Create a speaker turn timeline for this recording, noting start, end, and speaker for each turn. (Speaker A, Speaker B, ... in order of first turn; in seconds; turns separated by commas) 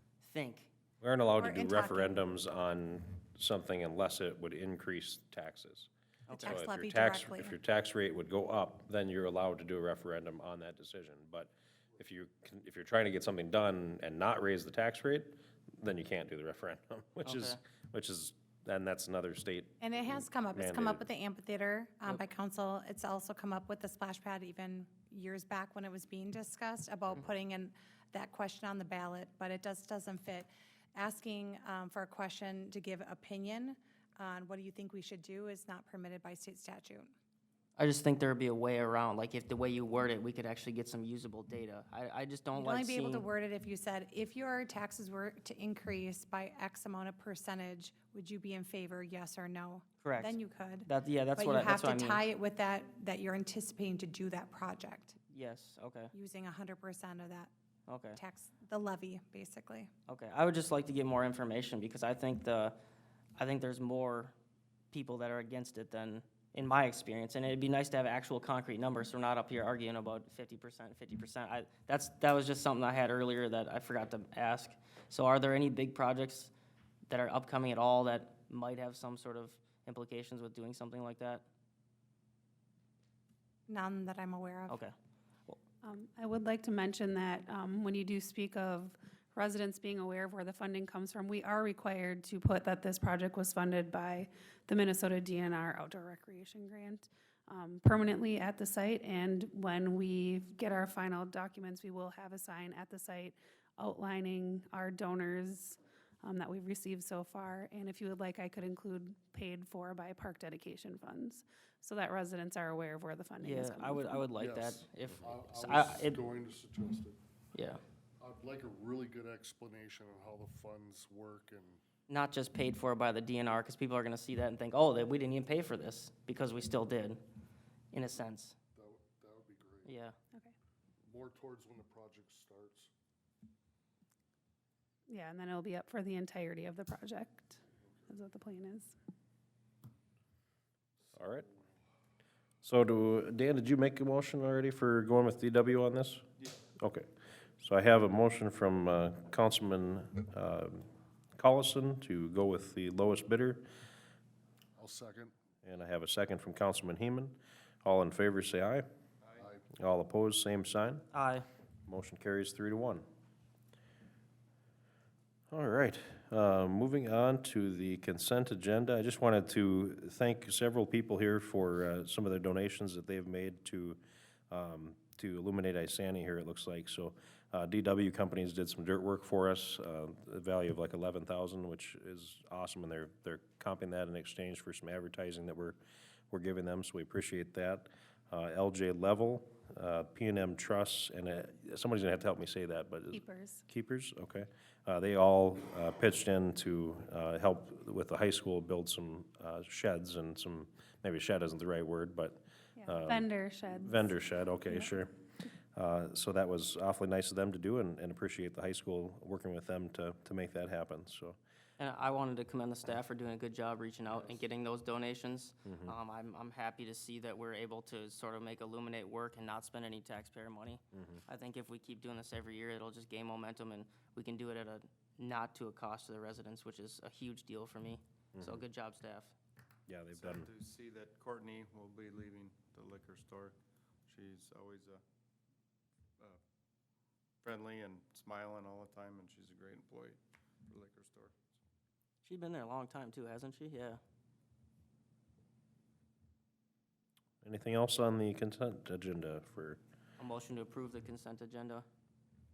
Speaker A: 0.2-0.7, Speaker B: 1.0-5.9, Speaker C: 1.4-2.1, Speaker A: 6.3-6.6, Speaker C: 6.3-7.5, Speaker B: 6.5-21.0, Speaker A: 17.2-17.6, Speaker C: 19.8-37.1, Speaker A: 37.8-43.3, Speaker C: 42.5-55.1, Speaker A: 50.0-52.2, Speaker A: 55.3-56.1, Speaker C: 56.1-57.5, Speaker A: 57.9-58.2, Speaker C: 58.1-59.9, Speaker A: 60.1-62.8, Speaker A: 63.4-64.3, Speaker A: 64.9-76.5, Speaker A: 77.1-81.5, Speaker C: 83.7-84.8, Speaker A: 84.7-84.9, Speaker D: 85.8-114.3, Speaker A: 113.4-116.2, Speaker E: 114.3-117.2, Speaker A: 117.5-117.8, Speaker E: 118.2-121.8, Speaker A: 122.1-127.2, Speaker A: 127.9-128.6, Speaker E: 128.7-129.9, Speaker A: 129.8-130.1, Speaker E: 131.1-132.9, Speaker D: 135.1-138.9, Speaker B: 141.1-141.4, Speaker B: 142.6-146.2, Speaker B: 146.8-147.1, Speaker B: 147.6-150.9, Speaker B: 151.4-153.6, Speaker E: 154.8-155.3, Speaker B: 155.6-158.8, Speaker E: 159.4-159.6, Speaker B: 159.8-161.0, Speaker A: 161.1-161.4, Speaker B: 161.9-163.0, Speaker B: 165.5-185.8, Speaker B: 186.3-203.3, Speaker D: 193.1-193.6, Speaker D: 202.8-204.1, Speaker B: 203.8-205.1, Speaker B: 205.7-211.4, Speaker A: 211.8-229.3, Speaker B: 215.7-215.9, Speaker B: 220.9-221.2, Speaker B: 228.3-228.6, Speaker B: 229.9-230.5, Speaker F: 230.2-233.5, Speaker F: 234.1-235.0, Speaker F: 237.4-241.3, Speaker A: 242.2-244.0, Speaker B: 247.4-249.8, Speaker A: 250.2-251.8